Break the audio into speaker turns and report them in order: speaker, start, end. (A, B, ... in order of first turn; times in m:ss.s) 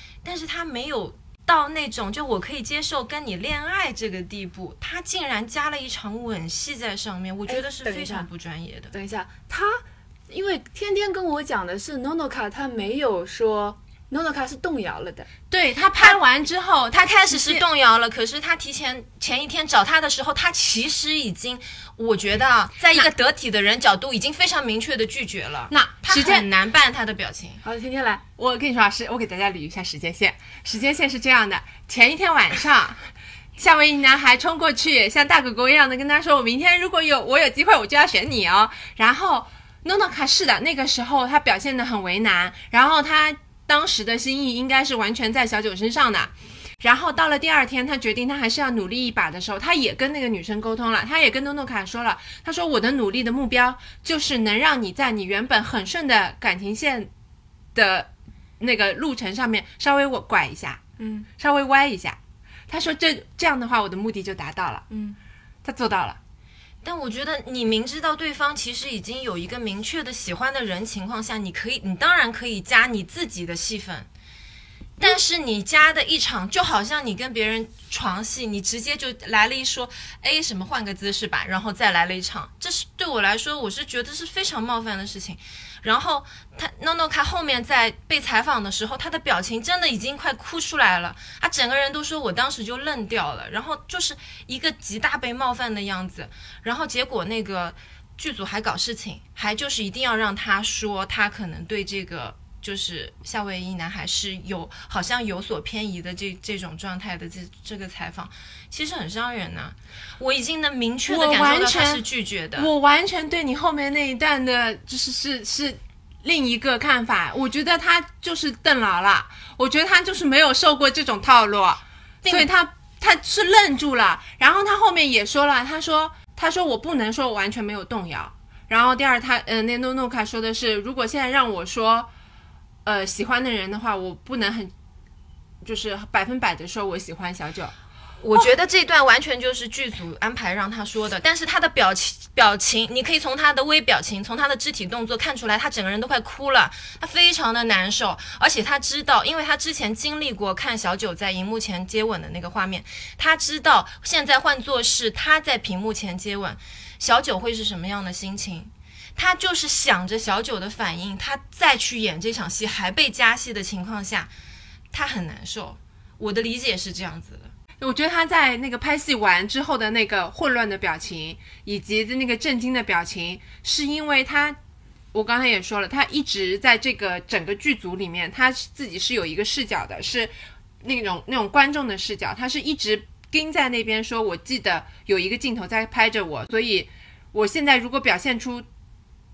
0:00.2-0:08.9 A
0:07.5-0:08.3 B
0:08.9-0:15.3 B
0:15.5-0:17.6 C
0:16.9-0:27.6 A
0:25.7-0:26.5 C
0:27.6-0:28.2 B
0:28.4-0:33.0 C
0:33.6-0:57.1 C
0:57.7-1:00.8 C
1:01.0-1:01.3 B
1:01.4-1:02.2 C
1:02.7-1:04.8 C
1:04.9-1:05.2 B
1:05.6-1:06.2 C
1:06.8-1:14.1 A
1:15.0-1:52.7 A
1:51.1-1:52.0 C
1:52.6-2:12.1 C
2:02.2-2:02.5 A
2:12.8-2:14.7 C
2:15.6-2:17.7 C
2:18.2-2:44.3 A
2:44.9-2:47.5 A
2:47.8-2:54.6 C
2:55.1-3:00.3 C
3:00.8-3:08.6 C